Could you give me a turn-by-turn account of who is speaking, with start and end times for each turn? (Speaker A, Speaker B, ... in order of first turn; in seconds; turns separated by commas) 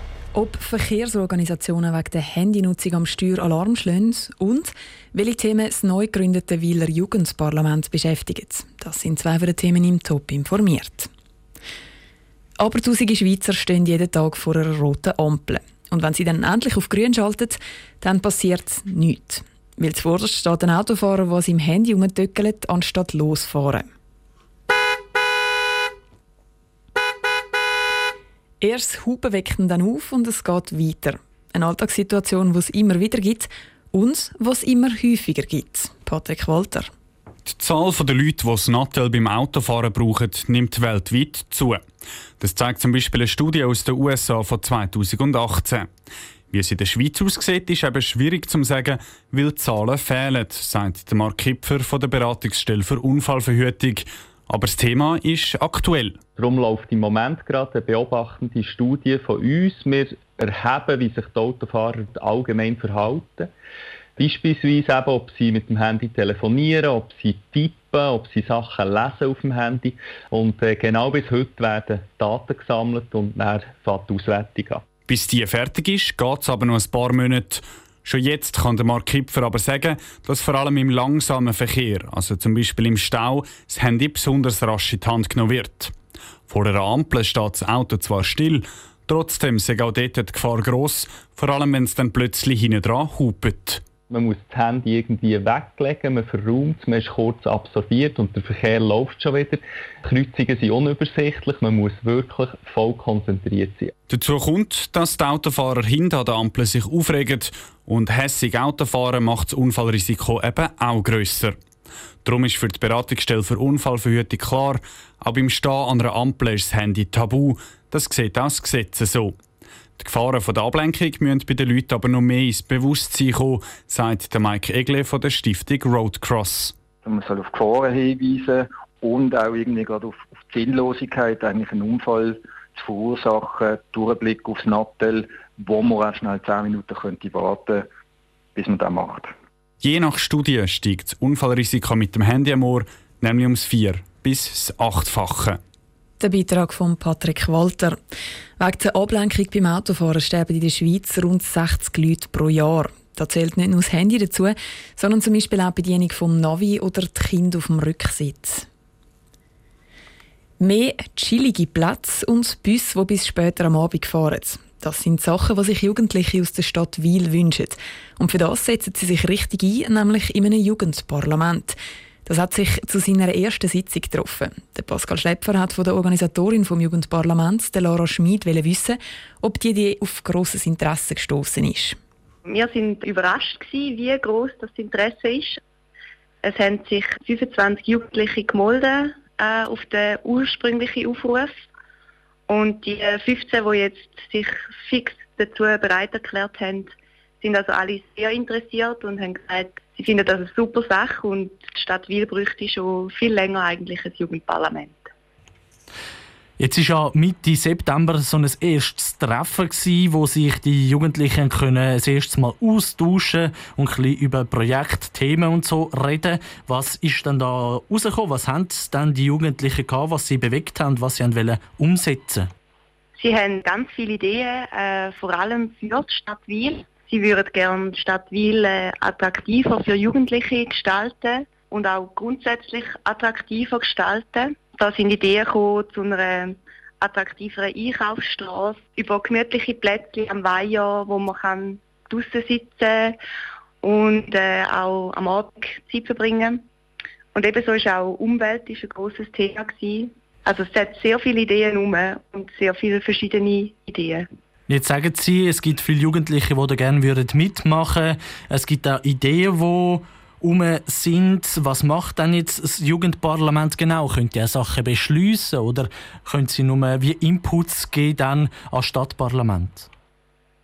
Speaker A: 0.3-11.1, Speaker A: 12.6-23.9, Speaker A: 28.6-36.9, Speaker B: 37.5-41.8, Speaker B: 42.4-45.9, Speaker B: 46.5-56.2, Speaker C: 56.4-63.5, Speaker C: 64.2-74.8, Speaker B: 75.1-85.9, Speaker B: 86.5-93.8, Speaker C: 94.1-103.9, Speaker B: 104.1-111.5, Speaker B: 112.2-119.4, Speaker B: 120.0-126.7, Speaker D: 127.0-137.8, Speaker D: 138.6-139.3, Speaker B: 139.8-145.6, Speaker A: 146.2-148.0, Speaker A: 148.6-158.7, Speaker A: 160.6-182.0, Speaker E: 182.4-185.6, Speaker E: 186.4-191.5, Speaker E: 192.5-205.1, Speaker F: 206.6-222.5, Speaker E: 223.2-243.2, Speaker E: 243.8-246.6, Speaker E: 247.3-254.2, Speaker F: 254.7-269.9